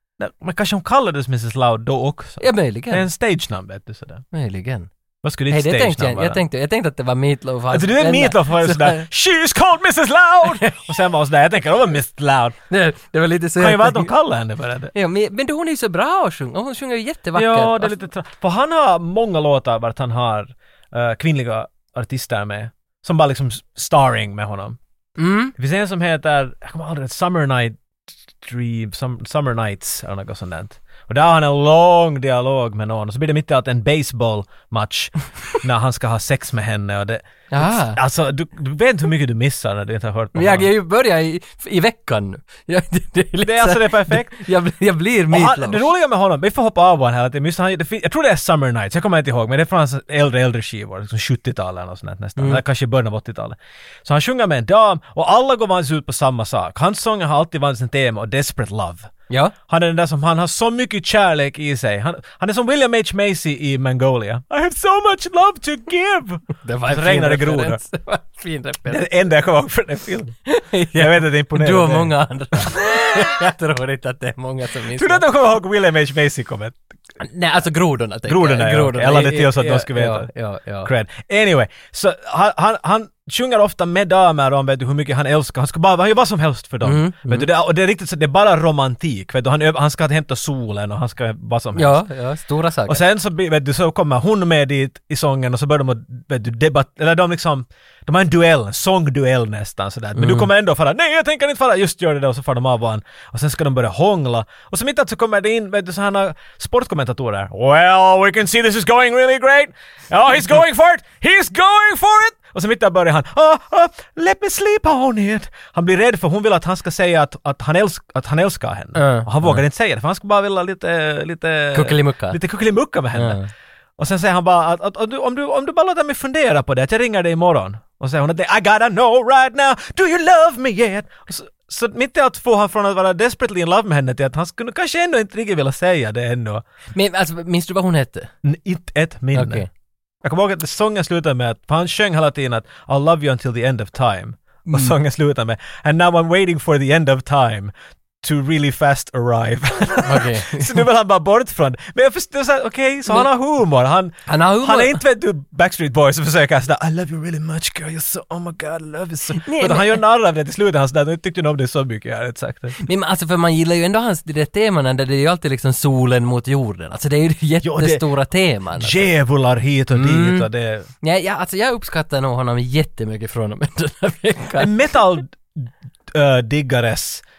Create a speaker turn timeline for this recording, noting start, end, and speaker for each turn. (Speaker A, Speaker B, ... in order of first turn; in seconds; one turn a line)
Speaker A: 0.2-4.2
Speaker B: 2.4-3.1
Speaker B: 4.3-4.9
Speaker A: 5.2-6.4
Speaker B: 5.5-9.1
Speaker A: 7.7-12.6
Speaker B: 10.4-10.9
Speaker B: 12.7-14.1
Speaker A: 13.6-14.9
Speaker B: 14.9-18.0
Speaker A: 17.4-24.8
Speaker B: 25.2-25.5
Speaker A: 25.6-27.8
Speaker A: 28.4-40.7
Speaker B: 37.5-38.0
Speaker B: 40.4-45.9
Speaker A: 43.4-44.4
Speaker A: 45.3-59.1
Speaker A: 59.7-67.8
Speaker B: 66.6-69.1
Speaker A: 68.9-70.4
Speaker B: 70.5-75.2
Speaker A: 70.9-73.3
Speaker A: 74.9-76.8
Speaker B: 77.2-80.9
Speaker A: 78.3-80.3
Speaker A: 80.8-92.0
Speaker B: 86.8-87.5
Speaker B: 91.8-93.0
Speaker A: 92.9-123.4
Speaker B: 100.2-100.5
Speaker B: 119.0-119.6
Speaker B: 121.7-122.4
Speaker B: 123.2-123.5
Speaker A: 124.0-136.6
Speaker B: 136.9-138.3
Speaker A: 138.4-139.7
Speaker B: 139.3-139.7
Speaker A: 140.2-162.8
Speaker B: 144.7-145.0
Speaker B: 150.1-150.8
Speaker B: 154.3-155.0
Speaker B: 159.4-160.0
Speaker B: 162.8-169.1
Speaker A: 167.6-168.0
Speaker A: 168.8-170.9
Speaker B: 169.9-170.5
Speaker B: 171.0-174.7
Speaker A: 174.6-177.2